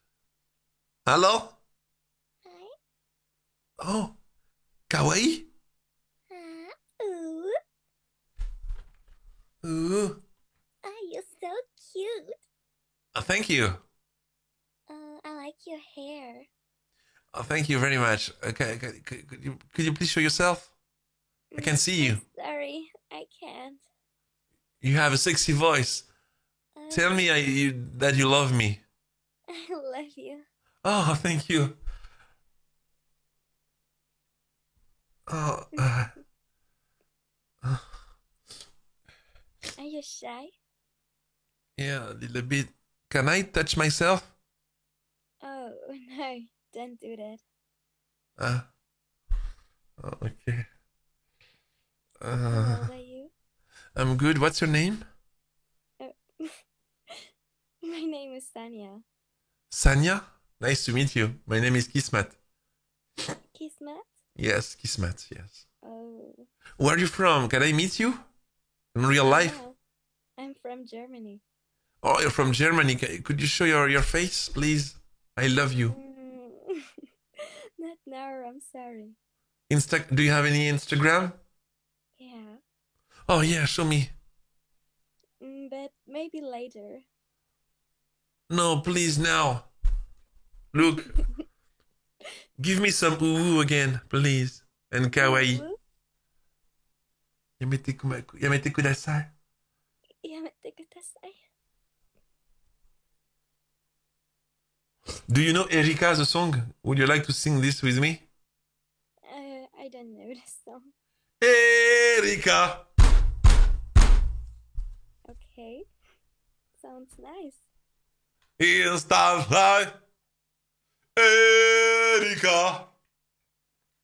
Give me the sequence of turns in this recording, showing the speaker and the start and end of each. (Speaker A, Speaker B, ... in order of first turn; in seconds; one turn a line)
Speaker A: 1.1-1.6
Speaker B: 2.4-2.7
Speaker A: 3.8-4.1
Speaker A: 4.9-5.5
Speaker B: 6.3-7.5
Speaker A: 9.6-10.2
Speaker B: 10.8-12.4
Speaker A: 13.1-13.8
Speaker B: 14.9-16.5
Speaker A: 17.3-20.7
Speaker B: 21.5-23.8
Speaker A: 21.6-22.2
Speaker A: 24.8-26.1
Speaker B: 26.7-27.4
Speaker A: 26.9-28.8
Speaker B: 29.5-30.4
Speaker A: 30.8-31.8
Speaker A: 35.3-36.1
Speaker B: 39.8-40.5
Speaker A: 41.8-44.3
Speaker B: 45.4-47.4
Speaker A: 48.4-48.6
Speaker A: 50.0-50.6
Speaker A: 52.2-52.9
Speaker B: 52.5-53.3
Speaker A: 53.9-55.0
Speaker B: 56.0-56.6
Speaker B: 57.8-59.0
Speaker A: 59.7-62.4
Speaker B: 63.5-64.1
Speaker A: 64.3-65.6
Speaker B: 65.8-66.5
Speaker A: 66.8-68.2
Speaker A: 68.9-69.6
Speaker B: 69.2-69.8
Speaker B: 70.4-71.4
Speaker A: 72.0-76.0
Speaker B: 75.9-79.2
Speaker A: 79.7-81.4
Speaker B: 82.2-82.6
Speaker A: 83.3-84.1
Speaker B: 85.4-87.0
Speaker A: 88.5-89.7
Speaker A: 90.7-91.2
Speaker A: 92.6-95.6
Speaker B: 95.1-95.8
Speaker A: 97.6-99.3
Speaker B: 100.2-101.4
Speaker A: 105.3-108.2
Speaker B: 109.2-110.9
Speaker A: 111.4-112.8
Speaker B: 115.3-115.8
Speaker B: 116.7-117.7
Speaker A: 118.6-119.9
Speaker A: 121.2-122.9